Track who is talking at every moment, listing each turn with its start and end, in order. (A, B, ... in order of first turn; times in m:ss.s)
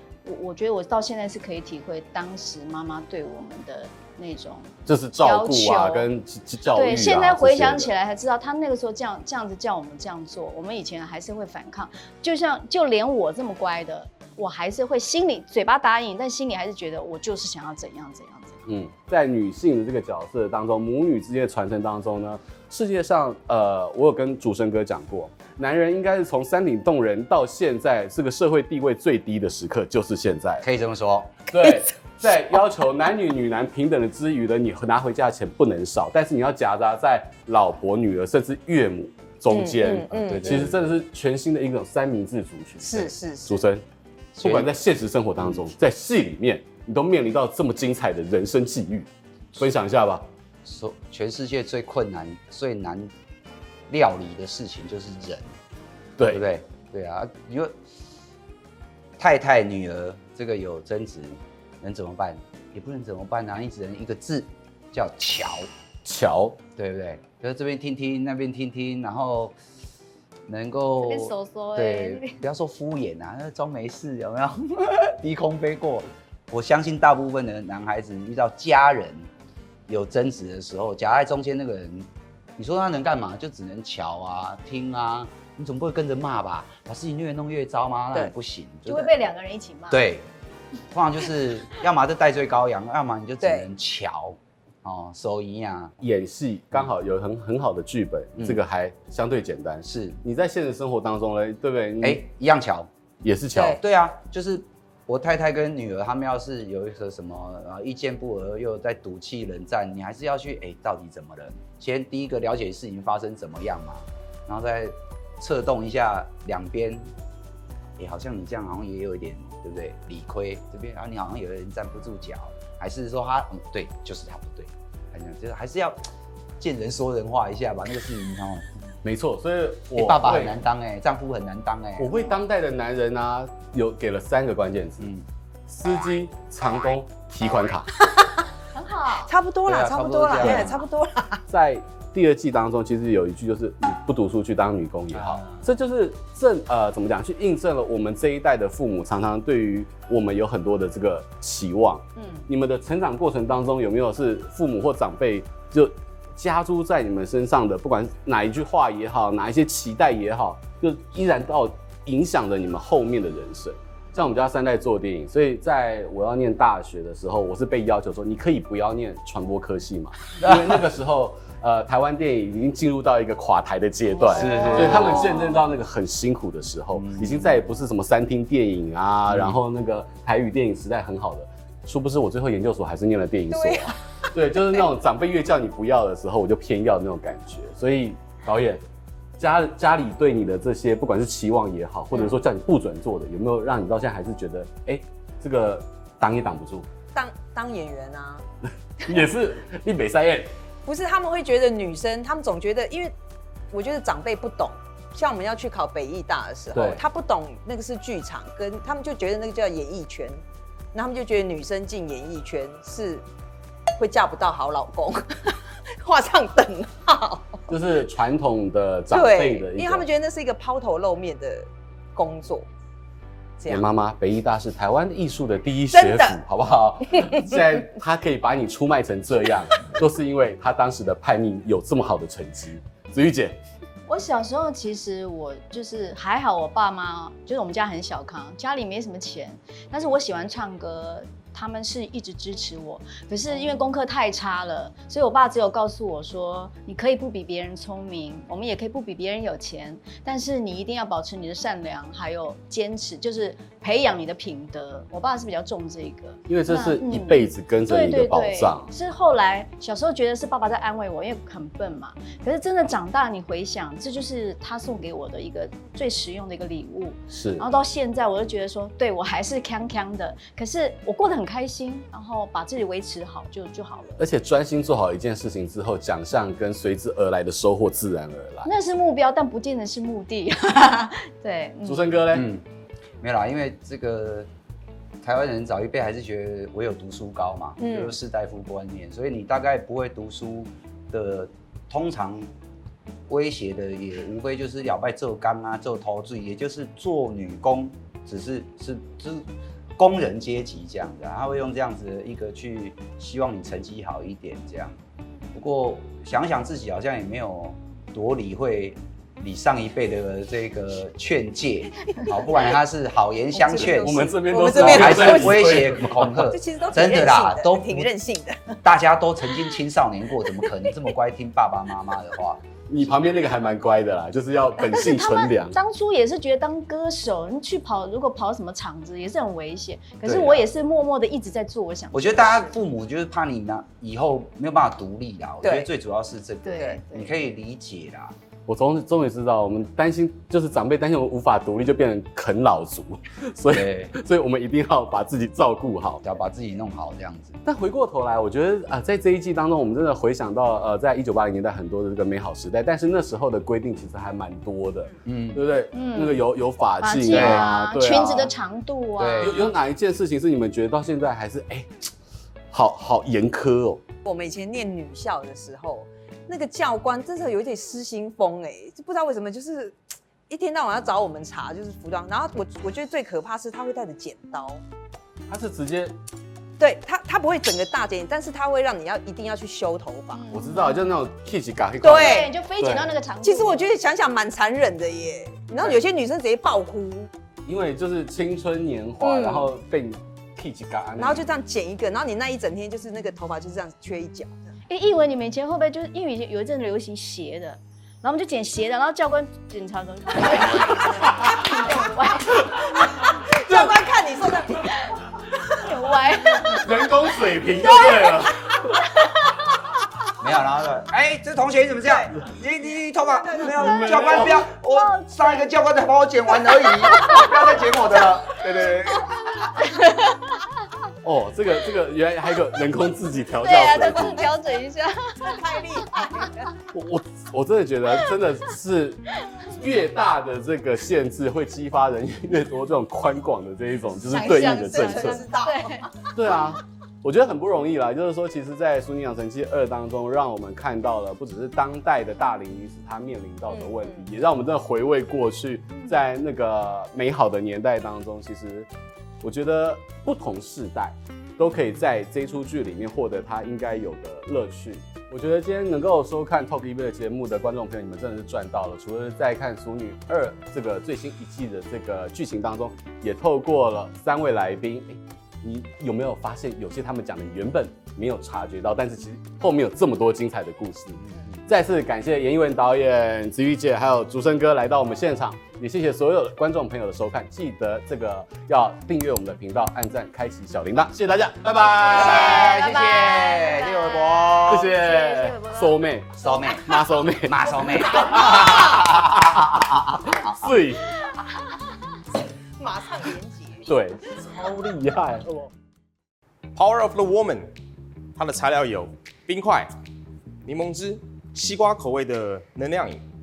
0:00.2-0:06.1 A
0:04.9-0:07.9 B
0:06.7-0:18.6 A
0:18.7-0:30.7 B
0:30.6-0:31.3 C
0:31.5-0:43.8 B
0:39.5-0:40.6 D
0:40.3-0:40.9 C
0:42.8-0:43.6 D
0:44.4-0:50.3 B
0:44.4-0:44.7 C
0:45.4-0:45.7 C
0:50.6-0:53.1 C
0:53.9-0:55.6 C
0:56.2-0:56.4 B
0:56.3-0:57.8 C
0:59.2-1:05.7 C
1:06.0-1:06.6 B
1:06.8-1:09.6 C
1:10.5-1:19.3 C
1:11.0-1:12.4 A
1:19.9-1:29.1 C
1:28.9-1:30.0 A
1:29.9-1:30.3 C
1:30.9-1:36.0 C
1:33.4-1:33.7 D
1:36.0-1:42.2 B
1:39.8-1:40.2 C
1:42.0-1:42.9 C
1:43.2-1:43.8 B
1:43.5-1:43.8 D
1:43.8-1:57.1 C
1:58.0-2:06.0 C
2:06.6-2:08.7 C
2:09.0-2:10.6 B
2:10.0-2:12.3 C
2:12.0-2:15.1 B
2:15.0-2:15.3 C
2:15.7-2:17.9 B
2:18.7-2:19.3 A
2:19.2-2:21.4 D
2:19.7-2:20.8 C
2:20.4-2:20.7 B
2:21.5-3:08.8 B
2:25.1-2:25.7 C
2:32.2-2:32.4 A
2:50.4-2:50.8 C
2:54.3-2:55.4 C
2:54.3-2:55.2 A
2:57.0-2:57.6 C
2:59.3-2:59.6 C
3:03.5-3:04.0 D
3:09.4-3:16.9 B
3:17.1-3:18.4 D
3:19.0-3:20.5 B
3:20.8-3:23.1 D
3:23.7-3:30.4 D
3:26.7-3:27.0 B
3:30.9-3:33.2 D
3:34.0-3:37.6 D
3:37.7-3:40.0 B
3:39.1-3:42.7 D
3:43.6-3:43.8 D
3:43.7-3:53.6 B
3:45.9-3:46.4 D
3:54.1-4:34.2 A
4:16.5-4:18.9 B
4:27.3-4:27.7 B
4:34.2-4:38.7 B
4:38.7-4:42.1 A
4:41.8-4:42.5 B
4:42.3-4:42.6 C
4:43.2-4:44.5 C
4:45.2-4:52.5 C
4:47.8-4:48.2 D
4:53.3-4:59.5 C
5:00.0-5:05.0 C
5:05.5-5:18.1 C
5:13.6-5:15.8 D
5:13.8-5:16.4 B
5:16.4-5:18.8 D
5:18.8-5:22.6 C
5:22.9-5:25.8 B
5:24.8-5:32.7 A
5:30.2-5:30.7 B
5:32.1-5:38.4 C
5:35.6-5:35.9 D
5:36.7-5:37.3 A
5:38.7-5:46.2 B
5:43.7-5:44.1 C
5:46.2-5:47.6 C
5:47.6-5:58.5 B
5:55.2-5:55.6 C
5:55.9-5:56.4 A
5:57.0-5:59.6 A
5:57.3-5:57.7 C
5:59.2-5:59.6 C
5:59.4-6:02.1 B
6:02.7-6:04.0 B
6:04.3-6:14.8 D
6:15.5-6:16.2 B
6:16.8-6:20.4 D
6:20.3-6:21.2 A
6:20.5-6:23.2 B
6:22.0-6:22.5 D
6:22.0-6:23.8 A
6:23.4-6:27.3 D
6:27.7-6:31.5 B
6:29.2-6:29.7 D
6:31.2-6:34.7 D
6:34.9-6:44.0 A
6:43.4-6:44.9 D
6:44.9-6:45.2 A
6:45.7-6:47.0 A
6:46.7-6:48.7 B
6:47.8-6:49.3 A
6:50.4-6:59.4 C
6:53.4-6:54.1 D
6:53.7-6:54.7 B
6:54.9-6:55.6 A
6:57.1-6:57.5 A
6:59.7-7:00.6 A
7:01.2-7:04.5 B
7:03.6-7:06.4 A
7:05.4-7:06.7 D
7:06.9-7:15.5 B
7:14.3-7:16.3 A
7:14.3-7:16.3 D
7:16.3-7:28.9 B
7:23.7-7:24.2 D
7:29.4-8:02.8 B
8:02.1-8:05.0 C
8:02.1-8:05.9 A
8:04.7-8:11.1 B
8:06.4-8:10.6 C
8:12.8-8:13.9 D
8:13.9-8:15.7 B
8:16.8-8:17.7 E
8:18.4-8:19.9 E
8:20.6-8:23.2 E